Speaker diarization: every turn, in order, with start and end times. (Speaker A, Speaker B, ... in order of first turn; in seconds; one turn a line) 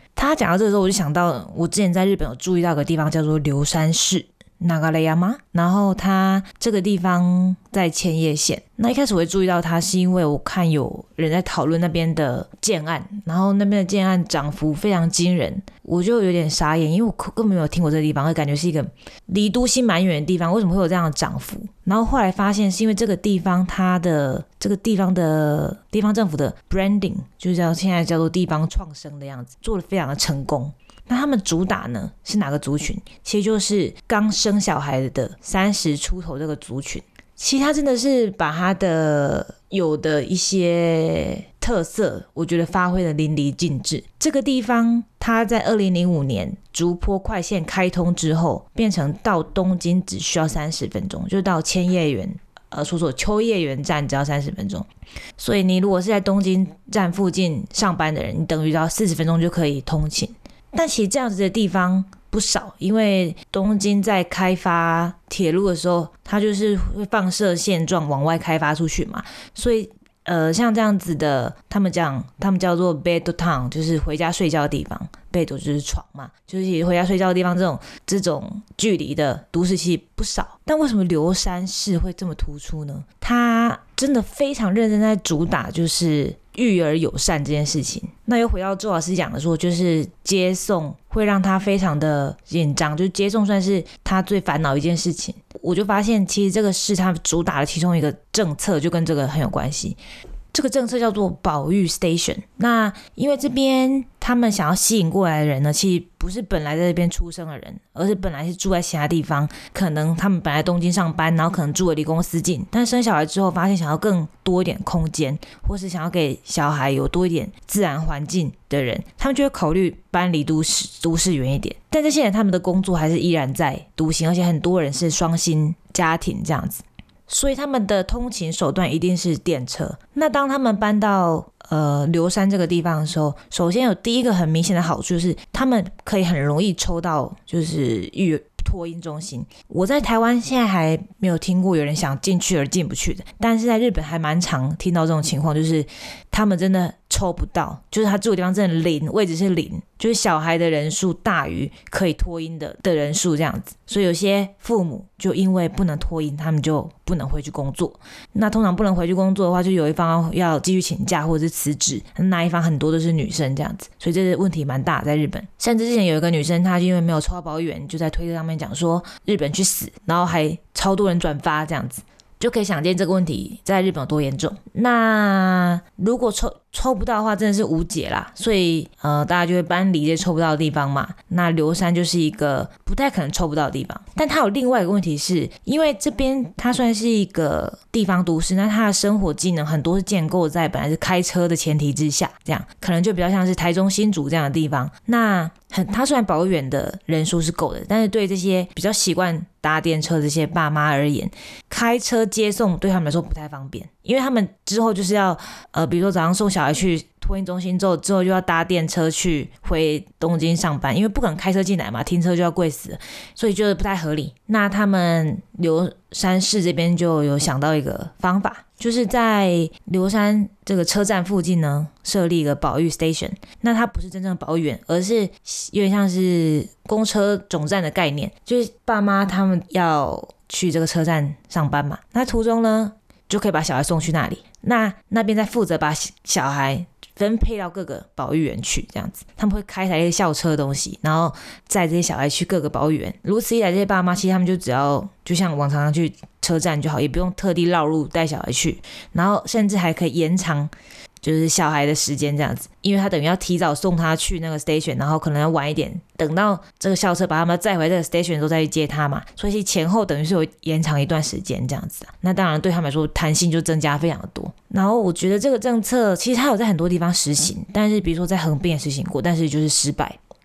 Speaker A: 0.1-100.0
Speaker A: 100.5-270.2